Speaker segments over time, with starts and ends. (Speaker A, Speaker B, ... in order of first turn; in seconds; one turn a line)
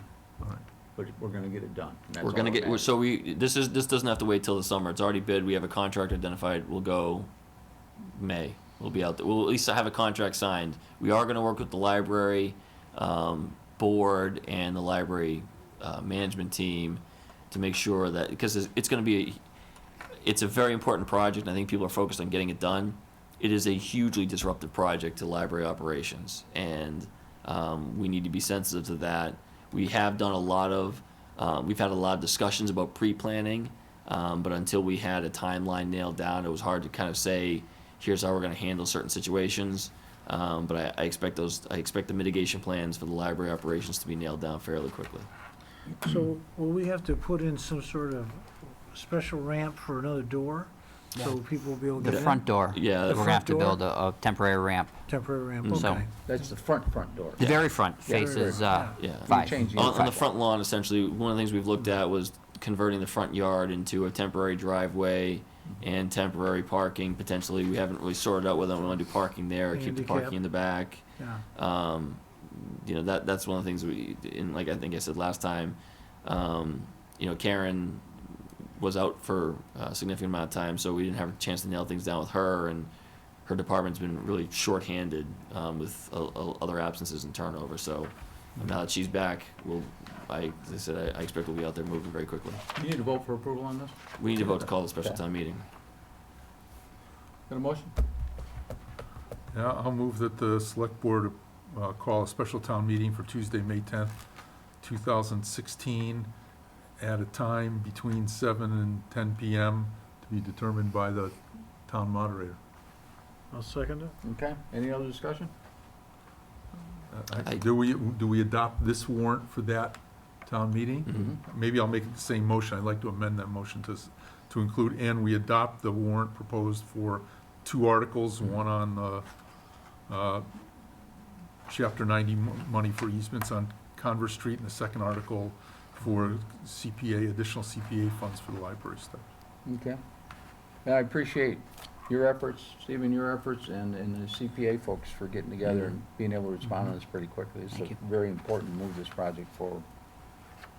Speaker A: 0.9-2.9
Speaker B: 2.2-7.3
Speaker B: 8.1-19.4
Speaker B: 20.2-45.3
Speaker C: 46.0-53.8
Speaker D: 52.0-54.9
Speaker B: 52.0-53.3
Speaker C: 55.1-56.1
Speaker B: 55.6-56.0
Speaker D: 55.7-56.0
Speaker A: 56.1-57.5
Speaker B: 57.4-57.6
Speaker D: 57.4-60.1
Speaker A: 58.0-60.2
Speaker C: 58.1-59.0
Speaker B: 59.0-71.0
Speaker C: 69.7-70.4
Speaker C: 71.2-71.4
Speaker B: 71.5-82.9
Speaker B: 83.5-92.6
Speaker A: 92.8-95.2
Speaker B: 94.2-95.6
Speaker A: 97.5-97.9
Speaker E: 99.5-104.2
Speaker E: 104.8-106.3
Speaker E: 107.0-112.6
Speaker C: 113.5-114.1
Speaker A: 114.2-115.5
Speaker E: 117.1-129.3
Speaker A: 121.1-121.4
Speaker E: 130.1-130.5
Speaker E: 131.7-139.2
Speaker A: 139.7-140.0
Speaker A: 140.8-149.8